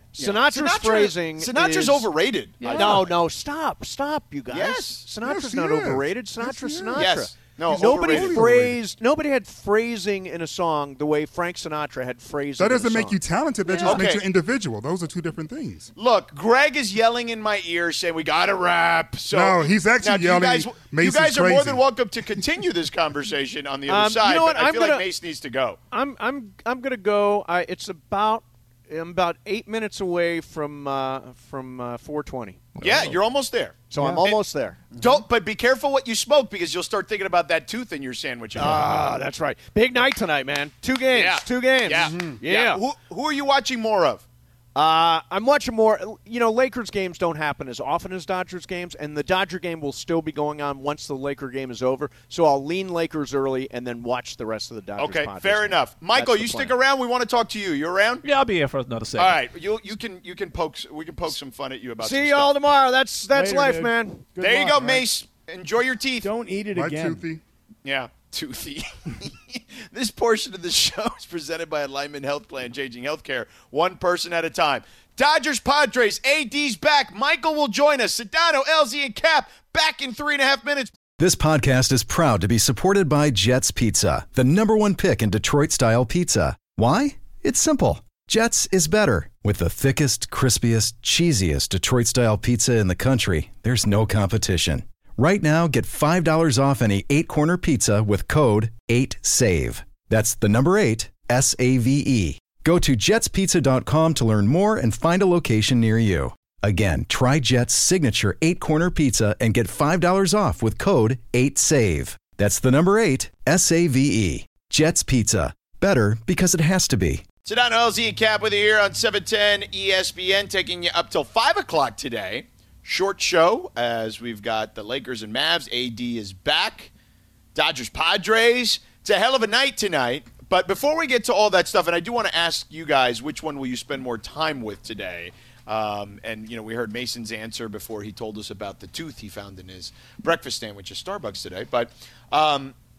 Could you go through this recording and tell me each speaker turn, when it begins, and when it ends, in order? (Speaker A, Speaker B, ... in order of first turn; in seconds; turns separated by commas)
Speaker A: 0.1-2.1, Speaker B: 0.2-3.1, Speaker C: 2.6-3.1, Speaker A: 2.7-14.0, Speaker B: 4.5-5.0, Speaker D: 5.2-7.1, Speaker B: 7.0-8.4, Speaker D: 7.7-8.8, Speaker D: 12.6-15.9, Speaker B: 13.8-14.2, Speaker B: 16.0-25.8, Speaker D: 19.3-21.8, Speaker A: 23.9-25.1, Speaker A: 25.9-32.7, Speaker C: 32.8-33.2, Speaker B: 32.8-34.4, Speaker A: 33.9-34.8, Speaker E: 34.0-34.2, Speaker B: 34.9-39.2, Speaker A: 38.6-42.8, Speaker B: 41.1-44.2, Speaker A: 44.8-56.8, Speaker B: 55.0-58.2, Speaker C: 58.2-59.4, Speaker B: 59.2-62.5, Speaker A: 62.0-64.2, Speaker E: 63.3-65.0, Speaker B: 64.4-66.3, Speaker E: 66.2-67.2, Speaker D: 66.7-67.4, Speaker B: 67.8-80.9, Speaker F: 81.2-117.2, Speaker B: 117.5-126.9, Speaker B: 127.5-142.8